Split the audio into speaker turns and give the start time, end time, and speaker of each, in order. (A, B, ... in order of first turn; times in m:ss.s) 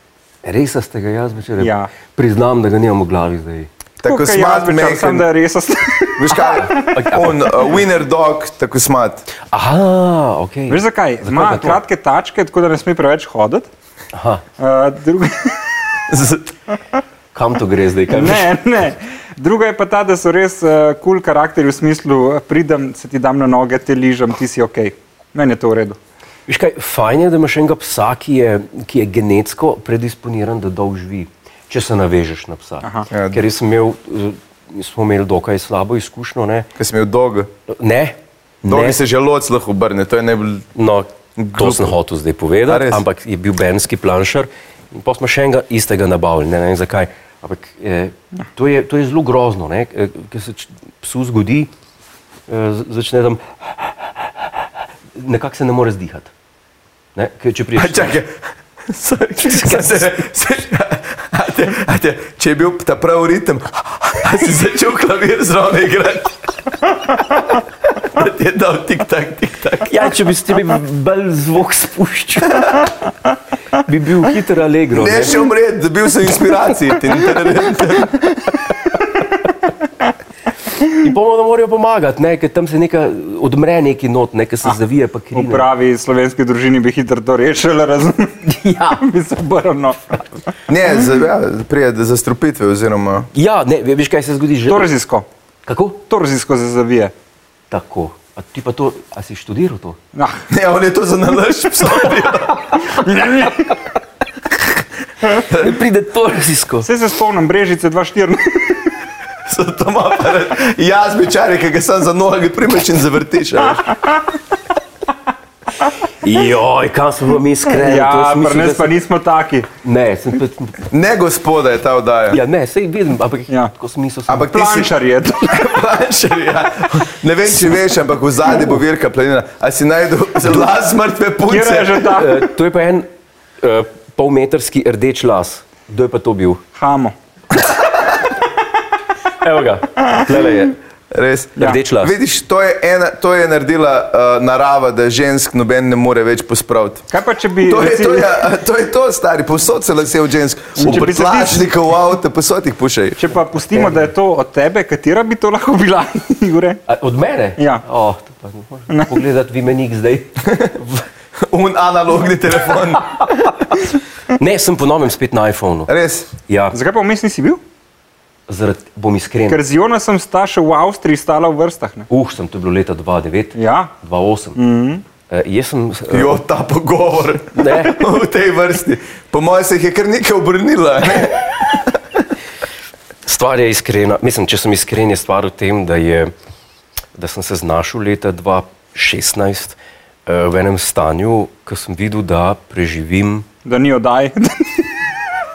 0:00.4-0:03.7 A
0:01.6-0:01.9 B
0:04.0-0:05.2 C
0:04.0-0:06.8 B
0:06.2-0:09.2 C
0:06.3-0:07.6 A
0:09.5-0:11.8 A
0:10.7-0:13.7 B
0:14.1-0:14.4 A
0:14.6-0:15.7 B
0:16.1-0:16.5 C
0:17.3-0:18.5 A
0:18.1-0:26.0 B
0:26.5-0:36.7 A
0:32.8-0:33.1 B
0:33.1-0:33.4 C
0:36.8-0:37.5 C
0:37.7-0:39.0 A
0:38.6-0:40.7 C
0:40.7-0:51.7 A
0:41.4-0:41.9 C
0:42.7-0:43.0 C
0:52.5-0:53.4 A
0:55.1-0:56.3 A
0:57.1-0:58.2 A
0:57.8-1:06.4 C
0:59.4-1:00.1 A
1:07.2-1:10.1 C
1:09.9-1:12.8 A
1:13.7-1:15.4 A
1:14.9-1:18.2 C
1:20.9-1:25.6 A
1:25.3-1:30.3 B
1:30.7-1:33.3 C
1:33.3-1:34.9 A
1:34.7-1:35.2 B
1:35.6-1:36.0 A
1:36.1-1:37.1 B
1:37.7-1:40.0 A
1:40.1-1:40.4 B
1:40.5-1:42.8 C
1:42.8-1:43.8 B
1:45.4-1:46.9 A
1:46.8-1:48.9 B
1:49.4-1:54.0 C
1:56.2-1:58.9 A
1:57.7-1:59.7 B
1:59.8-2:00.8 A
2:00.9-2:02.4 C
2:02.3-2:04.5 A
2:04.3-2:12.2 C
2:04.4-2:05.6 B
2:11.5-2:12.4 B
2:12.1-2:13.1 A
2:13.6-2:16.6 A
2:16.8-2:17.1 B
2:17.6-2:18.2 C
2:19.4-2:20.8 A
2:21.1-2:27.0 C
2:21.6-2:22.1 A
2:27.1-2:28.3 B
2:27.6-2:33.2 C
2:30.8-2:31.7 B
2:33.2-2:36.8 B
2:36.9-2:41.0 A
2:37.6-2:37.8 B
2:38.9-2:39.2 B
2:41.4-2:43.6 C
2:44.3-2:45.9 A
2:45.9-2:46.3 C
2:46.5-2:46.8 A
2:46.7-2:47.6 B
2:48.5-2:49.6 A
2:49.5-2:52.1 B
2:52.1-2:54.6 A
2:53.5-2:53.9 B
2:54.6-2:55.0 B
2:55.3-2:56.4 A
2:56.1-3:02.0 C
2:57.5-2:58.0 A
3:03.2-3:06.3 A
3:07.2-3:13.5 A
3:13.6-3:14.9 B